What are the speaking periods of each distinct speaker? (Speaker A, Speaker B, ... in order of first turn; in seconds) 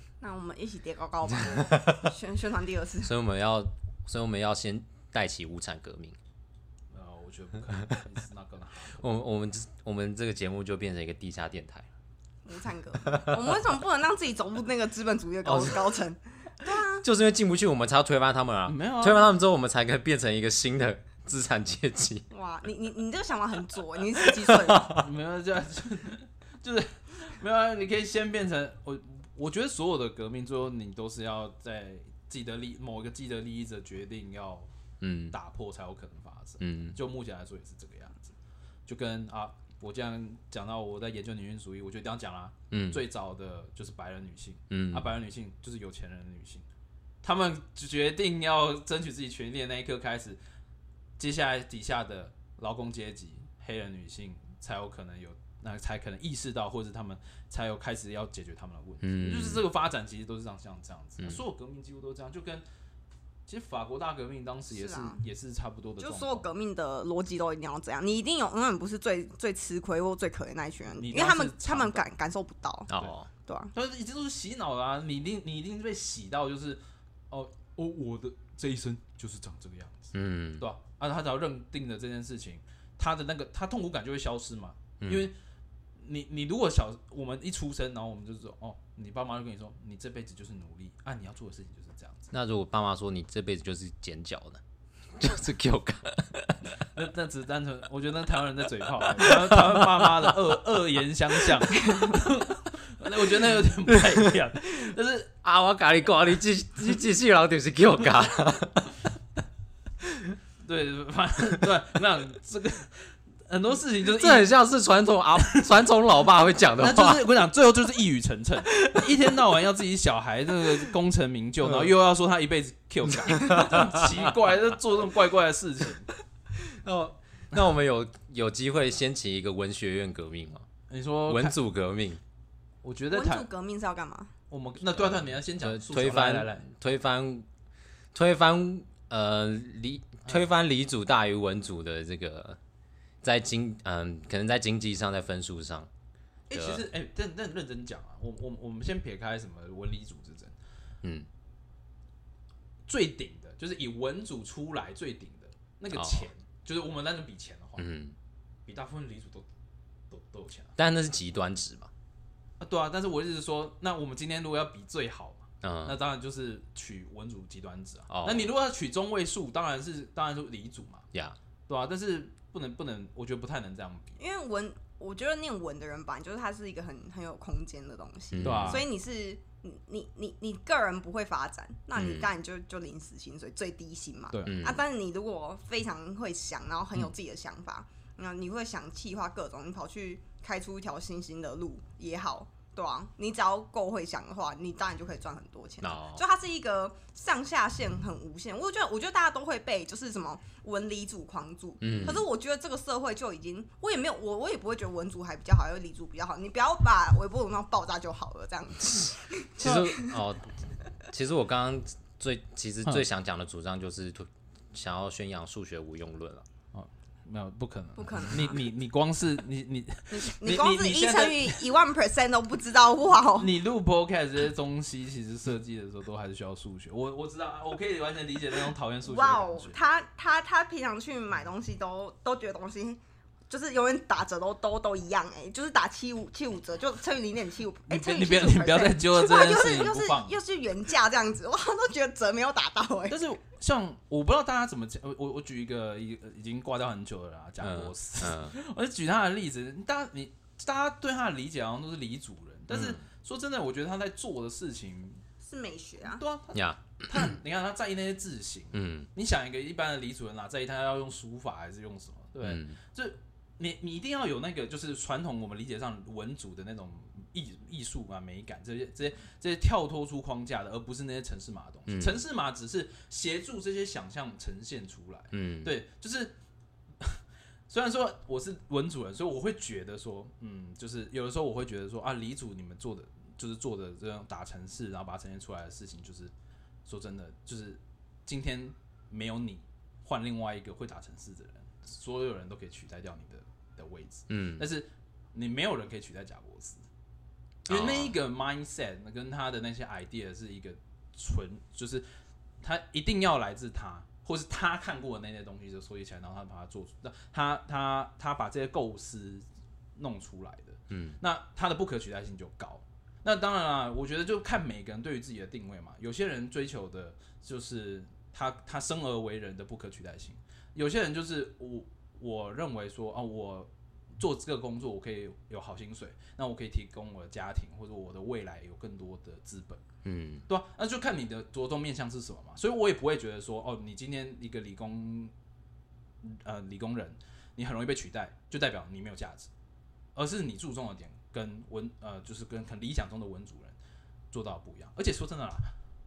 Speaker A: 0.2-3.1, 12.4-17.0, 22.3-24.9, 64.7-65.2, 66.0-72.9, 73.5-73.7, 133.1-134.3, 174.2-210.1, 217.9-218.6, 220.1-223.5, 229.0-233.0, 233.5-243.2, 255.4-256.2
Speaker B: 1.3-2.1, 3.0-6.2, 9.0-11.9, 13.1-13.4, 15.4-16.0, 17.0-22.2, 24.2-25.0, 35.0-35.3, 36.6-37.0, 42.7-43.0, 44.7-45.1, 59.0-59.6, 72.9-73.3, 80.1-80.7, 85.0-85.3, 92.3-94.6, 95.2-96.6, 99.2-100.3, 105.4-108.9, 114.0-117.2, 118.9-119.1, 121.6-121.9, 123.1-124.3, 126.5-130.7, 131.3-132.2, 135.0-137.5, 138.1-142.6, 143.2-145.9, 146.5-146.8, 151.0-151.3, 155.9-156.3, 157.8-158.2, 160.8-161.9, 165.6-166.0, 168.1-168.5, 178.3-178.8, 181.9-182.3, 184.4-184.8, 195.8-196.2, 201.8-202.2, 208.9-210.5, 211.1-216.4, 247.6-248.5, 252.7-253.0, 256.5-257.3, 258.7-259.1, 262.4-262.8, 271.9-272.2, 275.3-275.7, 294.3-294.6, 297.7-298.1, 310.9-311.2, 330.0-330.4
Speaker C: 6.9-9.0, 18.7-19.3, 24.9-34.7, 35.3-38.3, 38.9-46.7, 47.2-50.4, 51.2-62.6, 63.5-66.5, 71.0-72.0, 73.7-85.3, 86.0-92.3, 96.9-105.3, 110.6-113.0, 113.5-114.5, 116.8-126.1, 130.9-131.6, 132.8-133.5, 134.5-136.7, 146.5-150.6, 152.9-157.9, 158.7-159.4, 160.1-160.8, 162.6-171.1, 171.7-174.2, 178.4-178.8, 184.3-184.6, 209.6-209.9, 216.7-221.6, 223.3-229.8, 237.9-240.4, 243.1-255.2, 256.0-276.3, 277.0-286.3, 286.8-296.8, 297.7-302.1, 302.6-309.4, 309.9-329.8, 330.5-335.3, 336.2-339.5, 340.1-343.8, 344.3-345.7